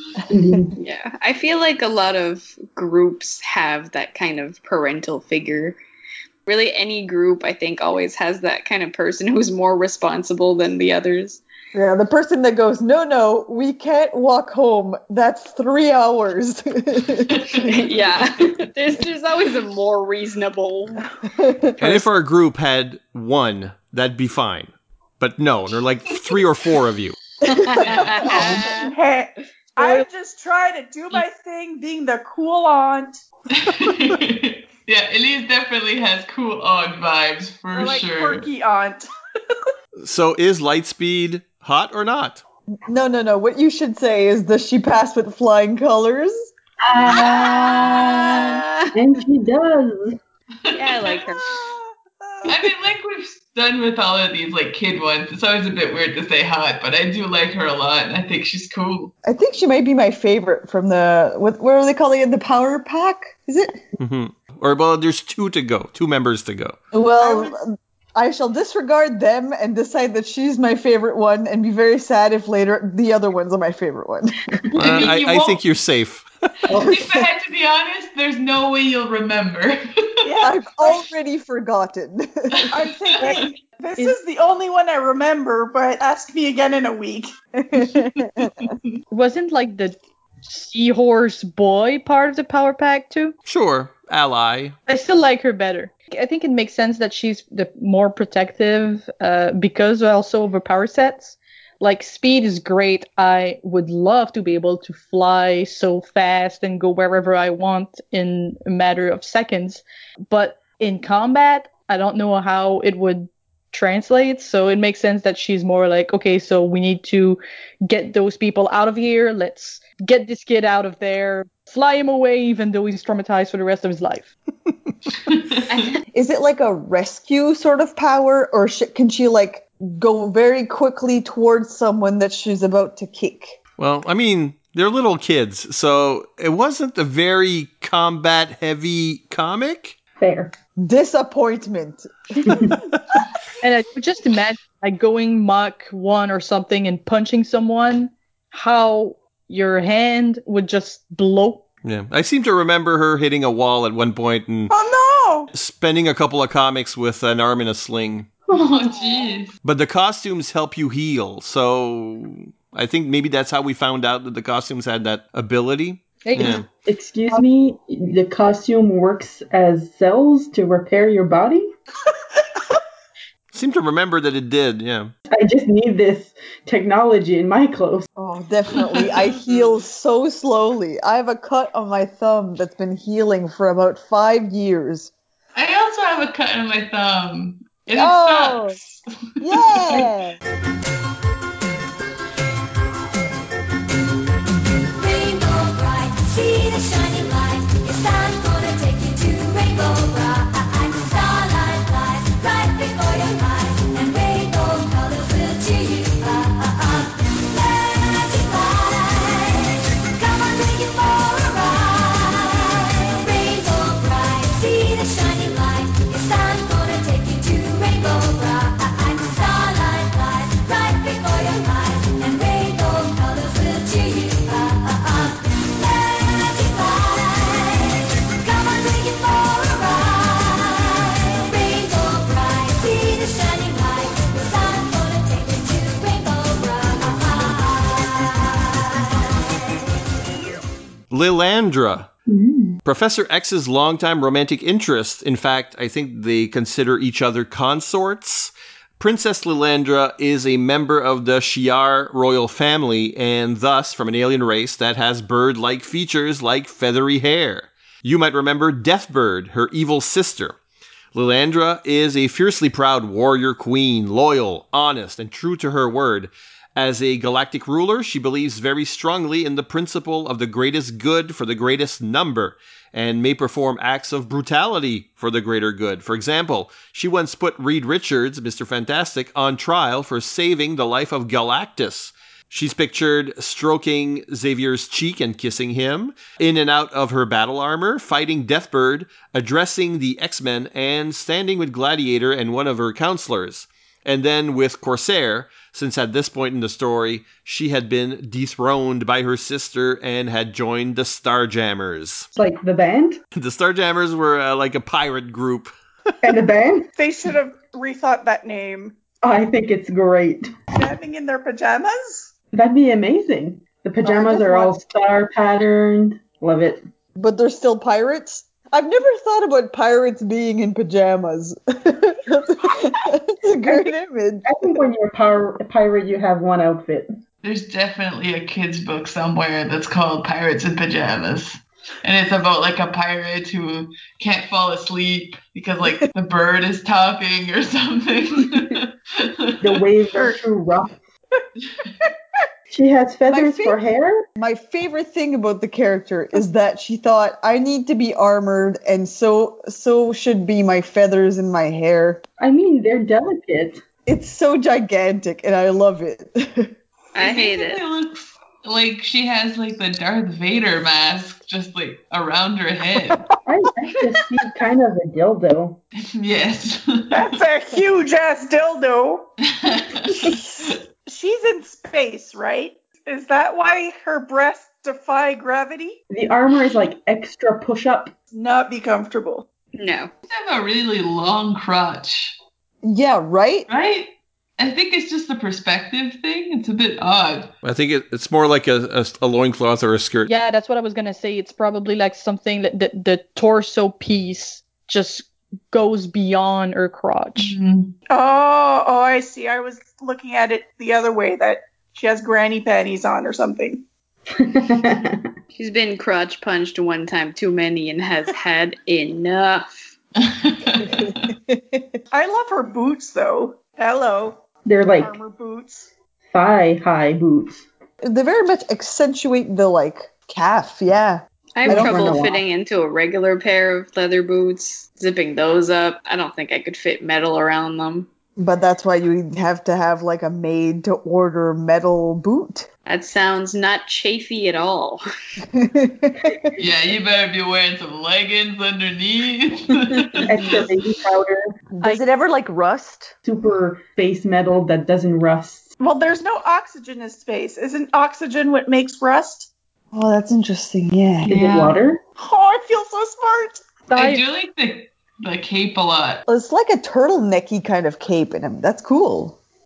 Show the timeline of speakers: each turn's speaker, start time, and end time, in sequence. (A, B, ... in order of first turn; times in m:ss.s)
0:00.3-0:00.7 A
0:00.8-0:05.8 B
0:06.4-0:11.4 B
0:11.7-0:17.8 C
0:17.6-0:21.1 B
0:21.3-0:22.0 C
0:21.8-0:27.1 D
0:27.4-0:28.9 B
0:28.0-0:33.2 E
0:33.5-0:38.5 F
0:37.7-0:39.0 E
0:40.0-0:42.4 D
0:42.8-0:46.5 C
0:46.8-0:50.2 A
0:47.1-0:48.9 B
0:50.6-0:51.3 F
0:50.7-0:51.6 B
0:51.6-0:52.5 E
0:52.4-0:59.1 F
0:59.2-1:03.8 C
1:04.0-1:06.8 D
1:06.9-1:14.3 C
1:07.2-1:07.5 E
1:14.8-1:16.3 D
1:16.7-1:17.0 A
1:16.7-1:19.8 F
1:16.8-1:17.2 C
1:20.2-1:21.0 E
1:20.4-1:23.4 C
1:22.7-1:27.3 E
1:23.2-1:23.5 F
1:27.6-1:28.7 C
1:29.1-1:33.3 G
1:33.4-1:34.7 D
1:34.9-2:04.3 G
2:05.3-2:05.6 F
2:05.7-2:06.0 B
2:06.1-2:13.6 C
2:13.8-2:20.0 D
2:20.2-2:20.5 A
2:20.8-2:22.7 C
2:22.4-2:22.7 A
2:23.6-2:31.6 G
2:31.8-2:34.7 D
2:34.7-2:35.5 E
2:35.5-2:38.3 D
2:38.5-2:39.5 F
2:39.6-2:46.7 D
2:46.2-2:46.6 G
2:46.8-2:51.7 A
2:53.5-2:55.1 D
2:55.3-2:58.1 A
2:58.2-3:05.1 C
2:58.7-2:59.3 F
3:05.5-3:08.8 F
3:07.9-3:08.8 C
3:09.4-3:10.4 C
3:15.0-3:47.8 H
3:48.4-3:50.9 H
3:51.5-3:58.2 H
4:01.1-4:02.1 D
4:02.3-4:02.8 A
4:02.8-4:20.6 D
4:21.1-5:02.3 D
5:02.3-5:03.2 A
5:03.3-5:05.7 D
5:06.2-5:06.9 A
5:07.0-5:09.0 E
5:09.2-5:10.5 A
5:10.7-5:12.3 E
5:12.5-5:16.8 A
5:14.0-5:14.7 C
5:17.1-5:24.8 C
5:23.6-5:23.9 A
5:24.4-5:27.1 A
5:27.4-5:39.8 F
5:39.6-5:40.9 A
5:40.1-5:40.4 E
5:42.7-5:44.2 A
5:43.3-5:43.8 C
5:44.4-5:52.2 C
5:52.4-5:53.8 A
5:54.0-5:56.7 C
5:57.1-5:57.8 B
5:57.2-6:03.2 F
6:03.4-6:05.8 A
6:06.0-6:07.4 F
6:07.1-6:09.3 E
6:09.5-6:10.8 F
6:11.0-6:16.0 E
6:16.1-6:18.1 A
6:18.3-6:19.5 E
6:19.8-6:20.1 B
6:20.3-6:22.4 F
6:22.8-6:23.7 C
6:23.7-6:27.5 F
6:27.6-6:30.3 D
6:30.2-6:37.5 G
6:37.4-6:37.9 F
6:38.1-6:43.8 E
6:44.3-6:45.3 A
6:45.5-6:49.7 B
6:50.2-6:51.2 F
6:51.5-6:51.8 C
6:52.1-6:54.4 E
6:54.6-6:55.2 A
6:54.9-6:55.9 E
6:56.3-6:57.6 A
6:58.0-7:02.2 C
7:01.6-7:08.1 B
7:01.6-7:02.4 A
7:08.4-7:12.7 C
7:12.8-7:15.0 B
7:15.4-7:16.5 C
7:16.6-7:20.6 F
7:20.3-7:21.5 A
7:21.7-7:23.1 C
7:23.2-7:25.7 A
7:25.8-7:29.5 E
7:29.9-7:31.8 C
7:31.2-7:32.0 A
7:32.2-7:33.6 E
7:33.9-7:34.2 G
7:33.9-7:36.2 F
7:36.3-7:39.4 C